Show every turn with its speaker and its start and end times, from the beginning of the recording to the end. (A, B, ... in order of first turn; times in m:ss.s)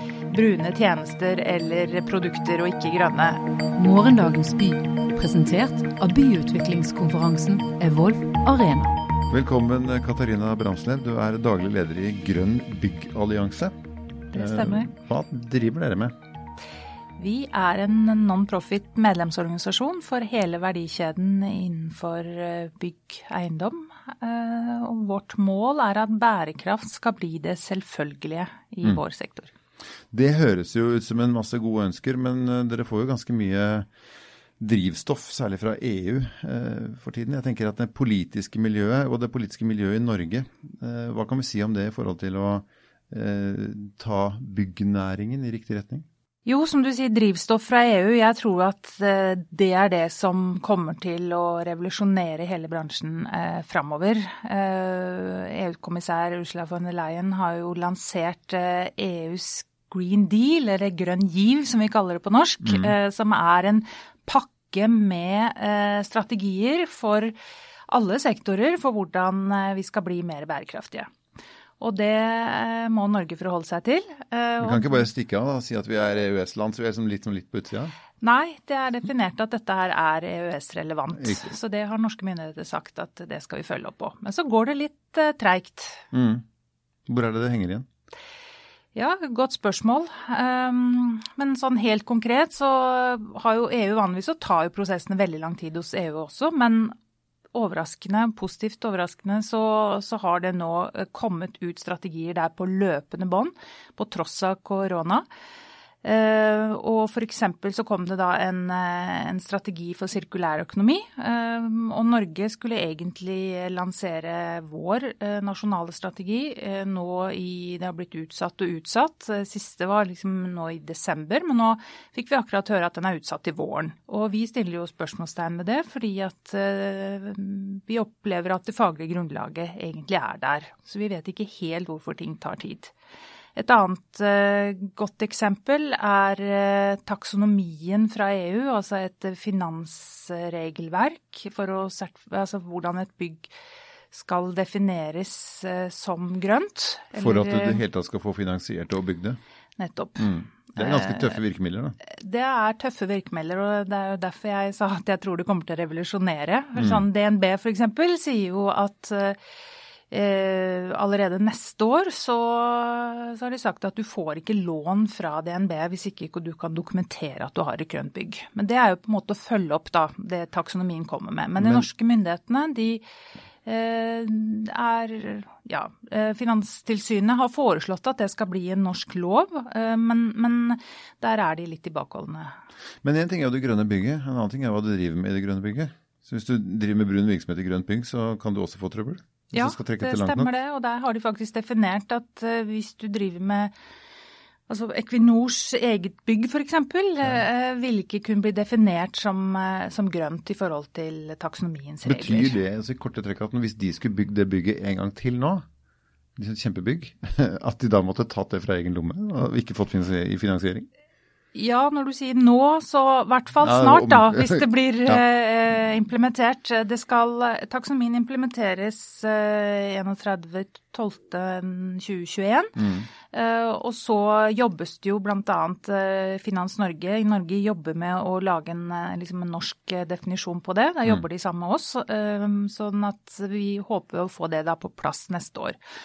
0:00.3-0:03.4 A
0:03.8-0:09.0 B
0:09.3-0:13.8 C
0:14.3-0:16.1 C
0:14.3-0:14.9 A
0:17.2-0:29.5 A
0:30.1-0:33.9 C
0:34.6-0:46.0 C
0:46.4-1:07.4 A
1:02.6-1:03.0 C
1:07.9-1:11.1 A
1:11.8-1:15.1 A
1:14.6-1:17.9 C
1:18.2-1:26.0 A
1:21.2-1:21.6 C
1:26.1-1:26.4 C
1:27.1-1:27.9 C
1:28.9-1:36.9 A
1:37.5-1:45.2 A
1:46.0-2:12.9 A
2:13.6-2:23.5 A
2:24.1-2:27.8 A
2:27.2-2:29.4 C
2:29.8-2:31.4 A
2:30.2-2:32.0 C
2:32.1-2:39.4 A
2:36.8-2:37.0 C
2:40.1-2:53.0 A
2:51.6-2:51.9 C
2:53.6-3:02.5 A
3:03.0-3:10.5 C
3:09.5-3:13.7 A
3:14.7-3:22.6 A
3:22.0-3:25.6 C
3:26.4-3:30.9 C
3:31.5-3:42.8 A
3:33.6-3:35.2 C
3:42.8-3:43.1 C
3:43.3-3:55.8 A